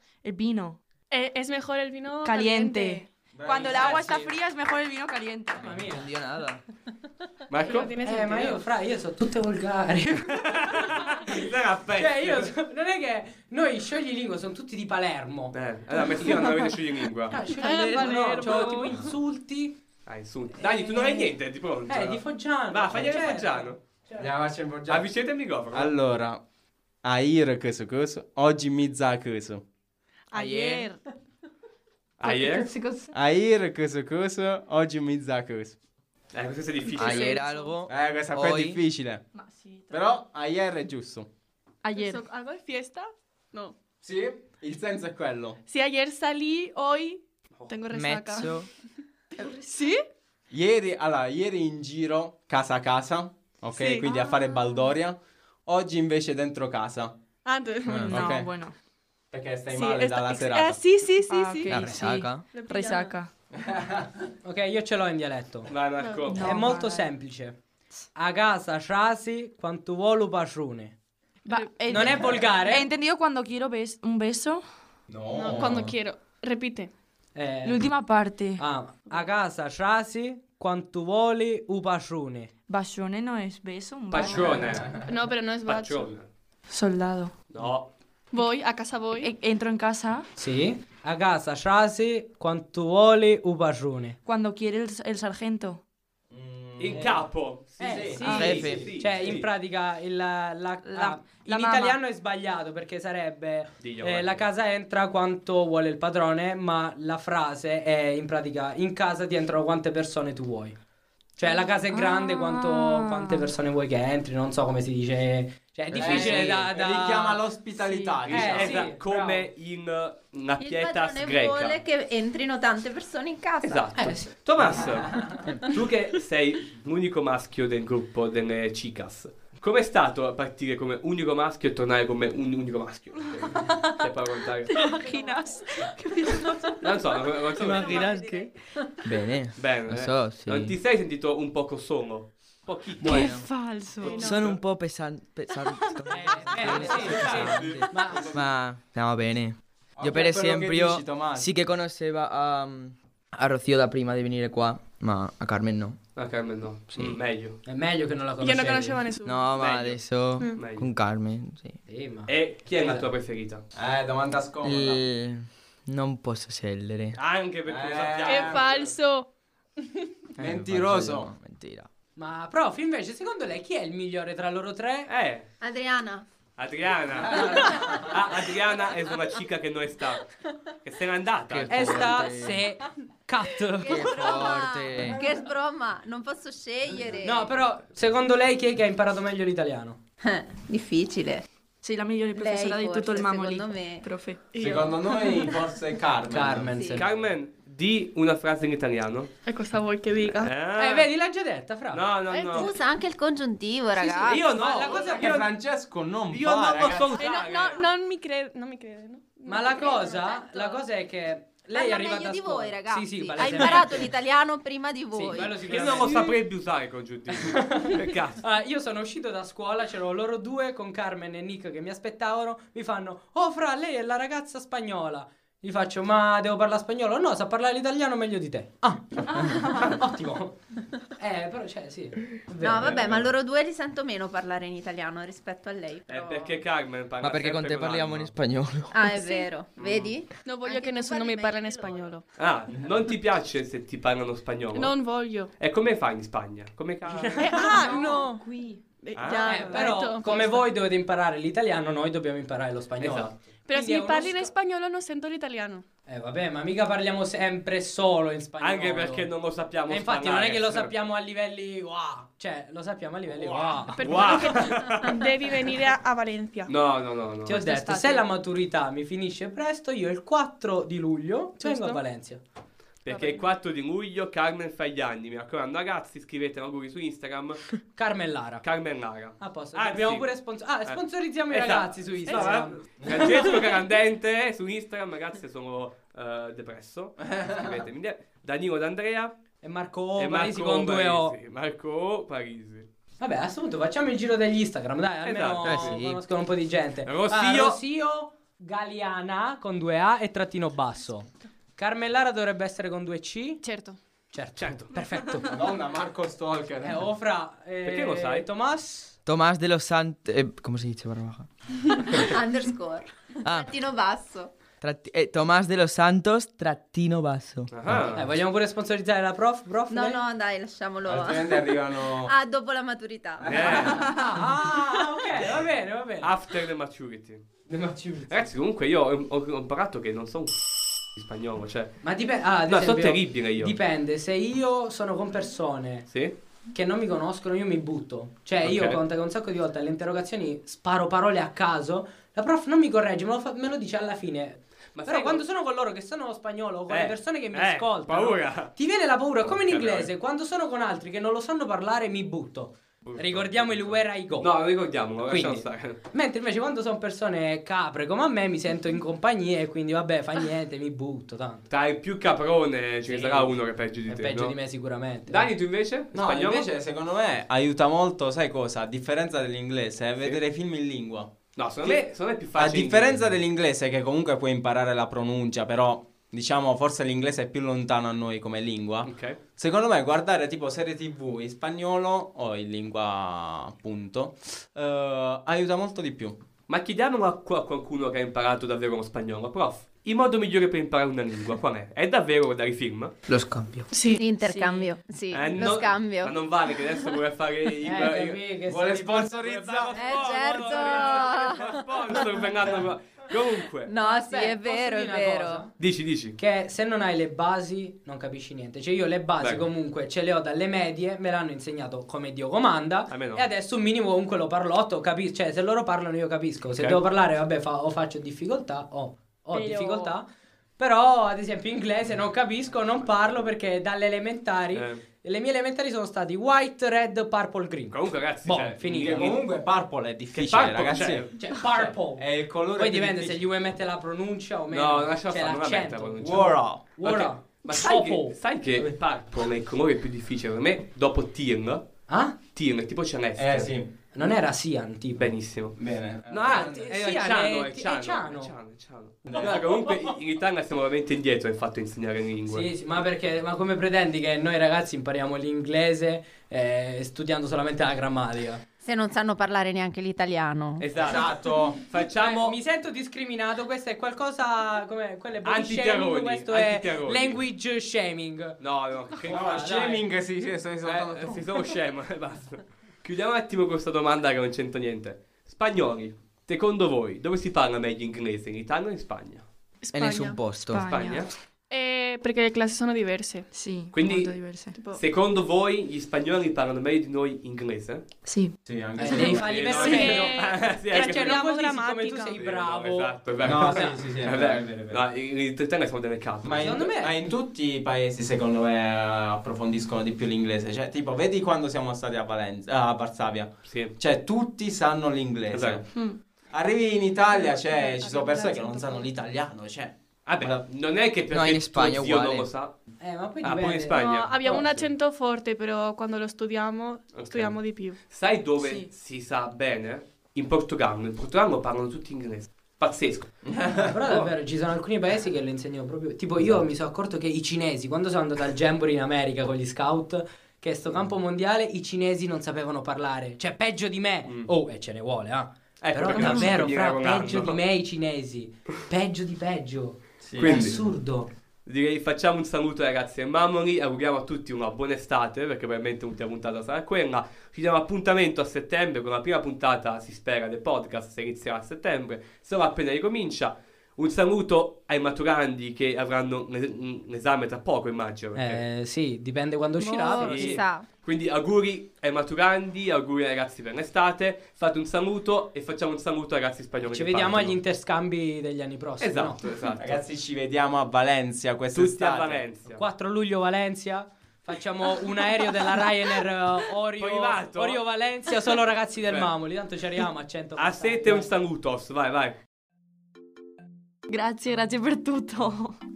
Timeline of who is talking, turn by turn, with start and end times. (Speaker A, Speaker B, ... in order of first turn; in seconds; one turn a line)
Speaker A: 0.2-0.8
Speaker B: 1.1-3.1
Speaker A: 2.2-5.8
Speaker C: 3.3-4.3
Speaker D: 5.5-6.1
Speaker E: 5.8-6.6
Speaker F: 7.5-8.0
Speaker B: 7.6-8.6
Speaker D: 8.0-15.5
Speaker F: 10.3-12.5
Speaker F: 15.5-17.4
Speaker D: 17.3-19.8
Speaker B: 17.4-18.9
Speaker F: 20.1-23.8
Speaker D: 20.6-21.3
Speaker D: 21.9-24.3
Speaker C: 24.2-25.1
Speaker F: 24.9-25.9
Speaker C: 25.7-26.4
Speaker C: 27.0-29.6
Speaker B: 30.3-31.0
Speaker E: 30.3-30.9
Speaker F: 32.2-32.7
Speaker A: 32.2-33.1
Speaker C: 33.1-35.8
Speaker F: 36.3-37.5
Speaker B: 36.9-37.7
Speaker E: 37.0-38.8
Speaker C: 37.9-39.2
Speaker B: 39.4-40.0
Speaker C: 39.9-41.3
Speaker A: 41.8-42.2
Speaker B: 41.9-43.8
Speaker C: 44.0-45.6
Speaker B: 45.6-48.7
Speaker E: 47.9-48.7
Speaker B: 49.3-50.0
Speaker C: 50.5-57.1
Speaker B: 53.7-54.5
Speaker B: 57.4-58.3
Speaker E: 57.9-58.2
Speaker A: 58.0-58.7
Speaker C: 58.1-58.5
Speaker C: 59.3-60.8
Speaker B: 59.7-63.2
Speaker A: 61.2-63.3
Speaker E: 61.7-62.5
Speaker C: 63.5-64.2
Speaker D: 64.4-65.7
Speaker F: 65.7-66.6
Speaker B: 66.0-66.5
Speaker A: 66.3-67.1
Speaker D: 66.3-67.6
Speaker D: 68.1-70.9
Speaker B: 71.5-72.4
Speaker A: 71.5-74.6
Speaker D: 71.9-72.8
Speaker C: 75.1-75.9
Speaker B: 75.3-76.9
Speaker D: 77.3-77.8
Speaker A: 77.6-78.6
Speaker D: 78.6-82.5
Speaker A: 82.7-84.8
Speaker F: 84.1-85.0
Speaker B: 84.3-86.1
Speaker C: 84.7-85.0
Speaker F: 85.6-86.3
Speaker A: 86.7-87.3
Speaker F: 87.5-87.9
Speaker B: 88.3-89.3
Speaker A: 89.2-90.3
Speaker D: 90.3-94.2
Speaker A: 94.2-95.8
Speaker C: 96.3-97.2
Speaker F: 96.8-99.5
Speaker D: 96.9-97.3
Speaker D: 97.8-110.8
Speaker C: 97.8-98.8
Speaker A: 98.2-98.6
Speaker E: 98.3-98.8
Speaker A: 100.8-102.0
Speaker F: 103.8-104.5
Speaker D: 111.4-117.5
Speaker A: 111.4-113.5
Speaker C: 115.9-118.9
Speaker F: 116.0-116.5
Speaker A: 117.8-118.1
Speaker D: 118.2-119.5
Speaker F: 118.2-121.8
Speaker G: 120.6-123.9
Speaker F: 123.6-134.8
Speaker D: 124.0-125.2
Speaker A: 133.7-134.0
Speaker A: 134.7-137.2
Speaker B: 134.8-135.3
Speaker F: 136.8-138.1
Speaker E: 137.6-138.5
Speaker E: 139.0-140.8
Speaker F: 139.6-143.4
Speaker A: 143.0-144.3
Speaker E: 143.0-143.5
Speaker B: 144.0-144.5
Speaker F: 144.0-144.6
Speaker E: 144.1-156.0
Speaker D: 146.1-148.3
Speaker F: 146.5-148.3
Speaker C: 146.9-147.5
Speaker C: 150.0-151.5
Speaker F: 156.2-157.6
Speaker E: 156.9-157.2
Speaker D: 157.7-159.0
Speaker B: 158.4-159.5
Speaker E: 159.2-161.8
Speaker F: 159.6-160.0
Speaker B: 160.4-160.6
Speaker F: 160.6-160.9
Speaker D: 161.9-163.1
Speaker F: 162.3-163.6
Speaker C: 163.7-165.0
Speaker E: 164.6-167.2
Speaker F: 167.2-168.9
Speaker C: 167.7-168.7
Speaker B: 168.2-169.3
Speaker E: 170.4-171.9
Speaker C: 170.4-171.3
Speaker D: 172.2-175.1
Speaker F: 175.1-175.5
Speaker G: 175.6-176.2
Speaker F: 176.6-182.2
Speaker C: 177.2-178.1
Speaker E: 181.5-182.6
Speaker D: 181.7-184.5
Speaker G: 183.8-187.6
Speaker E: 183.8-185.2
Speaker D: 187.2-190.0
Speaker G: 190.2-191.4
Speaker A: 191.8-194.4
Speaker G: 192.3-194.1
Speaker B: 194.5-195.5
Speaker C: 194.6-196.7
Speaker D: 196.3-197.1
Speaker G: 196.7-197.0
Speaker F: 196.9-199.3
Speaker B: 199.4-200.5
Speaker F: 200.2-201.1
Speaker D: 200.8-202.0
Speaker F: 201.9-202.7
Speaker B: 202.3-202.7
Speaker G: 202.5-205.1
Speaker F: 203.9-205.5
Speaker D: 204.3-205.4
Speaker C: 205.1-207.2
Speaker F: 206.3-207.9
Speaker B: 207.1-210.8
Speaker D: 209.5-214.2
Speaker G: 211.7-216.1
Speaker D: 215.1-216.3
Speaker F: 215.7-218.4
Speaker D: 217.3-230.6
Speaker A: 229.5-229.8
Speaker D: 231.2-233.2
Speaker G: 232.6-236.6
Speaker F: 232.8-233.2
Speaker F: 236.1-238.3
Speaker E: 237.2-239.2
Speaker G: 238.9-242.1
Speaker F: 239.8-240.1
Speaker B: 240.4-242.2
Speaker F: 242.4-247.6
Speaker B: 244.7-245.5
Speaker D: 247.1-248.1
Speaker B: 247.4-248.5
Speaker A: 247.6-248.8
Speaker B: 249.0-250.7
Speaker F: 249.1-249.9
Speaker D: 249.4-254.5
Speaker F: 253.0-253.5
Speaker B: 253.7-255.8
Speaker D: 256.1-259.3
Speaker F: 258.6-260.9
Speaker D: 259.9-264.5
Speaker F: 263.3-265.3
Speaker B: 263.9-266.7
Speaker F: 266.7-267.6
Speaker D: 267.4-272.4
Speaker B: 267.5-268.2
Speaker B: 271.6-272.0
Speaker F: 273.0-277.8
Speaker B: 273.1-273.4
Speaker D: 277.9-278.6
Speaker F: 278.6-289.4
Speaker D: 279.4-283.5
Speaker B: 282.2-282.7
Speaker C: 283.0-283.3
Speaker C: 287.2-287.7
Speaker D: 289.6-291.3
Speaker F: 290.2-292.9
Speaker D: 293.2-303.6
Speaker F: 295.2-296.0
Speaker E: 295.6-296.2
Speaker F: 297.0-297.8
Speaker B: 303.6-304.0
Speaker D: 304.3-305.6
Speaker F: 304.6-304.9
Speaker C: 305.5-307.1
Speaker D: 306.8-309.1
Speaker F: 307.8-308.5
Speaker E: 309.2-312.0
Speaker G: 312.1-314.5
Speaker E: 313.4-313.7
Speaker E: 314.8-318.1
Speaker F: 317.7-318.3
Speaker D: 318.1-320.2
Speaker G: 319.9-324.1
Speaker C: 321.0-322.3
Speaker F: 323.4-324.1
Speaker D: 323.7-326.3
Speaker F: 326.2-327.5
Speaker D: 327.7-328.3
Speaker F: 328.3-332.1
Speaker D: 332.0-336.1
Speaker F: 332.6-333.8
Speaker F: 336.1-336.3
Speaker D: 336.7-354.5
Speaker F: 338.6-339.0
Speaker F: 344.9-345.4
Speaker F: 346.9-348.7
Speaker F: 349.4-350.1
Speaker F: 353.0-356.0
Speaker D: 355.2-361.7
Speaker F: 361.7-364.6
Speaker D: 363.1-365.5
Speaker F: 365.3-366.7
Speaker C: 366.1-371.3
Speaker F: 371.6-373.4
Speaker C: 371.8-386.4
Speaker F: 379.1-379.4
Speaker F: 386.7-393.1
Speaker E: 393.3-393.9
Speaker B: 393.9-394.3
Speaker G: 394.1-396.4
Speaker A: 394.4-395.0
Speaker F: 395.3-398.4
Speaker D: 397.8-399.4
Speaker C: 398.6-400.8
Speaker F: 399.4-403.9
Speaker G: 399.9-402.5
Speaker G: 403.9-405.6
Speaker D: 404.0-405.7
Speaker F: 405.8-406.4
Speaker D: 406.4-420.2
Speaker F: 409.4-409.7
Speaker F: 413.1-413.4
Speaker A: 419.5-420.2
Speaker D: 420.8-429.3
Speaker F: 422.7-423.5
Speaker F: 424.7-425.0
Speaker F: 427.9-429.4
Speaker C: 428.9-433.4
Speaker F: 430.3-431.3
Speaker D: 431.4-439.0
Speaker F: 434.7-443.7
Speaker C: 436.2-436.9
Speaker D: 442.1-442.4
Speaker C: 443.4-443.9
Speaker D: 444.1-445.3
Speaker F: 445.2-452.7
Speaker C: 445.8-446.9
Speaker D: 446.4-448.5
Speaker D: 449.2-450.1
Speaker C: 449.3-449.6
Speaker D: 452.5-458.6
Speaker G: 458.8-461.1
Speaker F: 460.8-462.6
Speaker C: 461.0-461.8
Speaker D: 462.2-468.6
Speaker F: 465.4-467.4
Speaker F: 468.6-469.9
Speaker D: 469.2-470.0
Speaker C: 469.2-471.5
Speaker F: 470.8-479.4
Speaker B: 479.8-480.4
Speaker E: 479.9-480.8
Speaker A: 480.5-481.3
Speaker F: 480.8-481.3
Speaker B: 481.7-483.5
Speaker A: 483.5-484.8
Speaker F: 483.9-488.1
Speaker B: 484.7-485.0
Speaker A: 488.2-488.6
Speaker C: 488.6-489.7
Speaker D: 489.0-494.0
Speaker F: 489.1-491.4
Speaker B: 489.7-492.4
Speaker A: 489.9-490.2
Speaker F: 492.3-496.8
Speaker C: 493.4-495.0
Speaker C: 496.4-505.8
Speaker D: 496.6-497.1
Speaker F: 503.6-503.9
Speaker F: 505.5-505.8
Speaker A: 505.9-506.2
Speaker C: 506.5-510.6
Speaker B: 507.3-509.1
Speaker F: 510.2-512.8
Speaker E: 511.3-512.5
Speaker D: 513.0-514.0
Speaker F: 513.4-514.9
Speaker B: 513.9-518.0
Speaker F: 517.1-523.5
Speaker A: 518.6-518.9
Speaker C: 523.4-523.9
Speaker D: 523.7-541.3
Speaker F: 526.4-526.6
Speaker F: 535.8-537.6
Speaker C: 540.2-540.7
Speaker F: 540.4-540.8
Speaker F: 541.6-558.6
Speaker D: 558.4-560.6
Speaker G: 559.8-560.9
Speaker F: 560.2-567.6
Speaker D: 566.9-569.4
Speaker F: 569.0-570.0
Speaker C: 569.8-572.4
Speaker F: 571.7-572.8
Speaker D: 572.6-581.3
Speaker F: 577.0-577.8
Speaker F: 579.0-579.3
Speaker F: 580.6-582.4
Speaker A: 584.1-585.8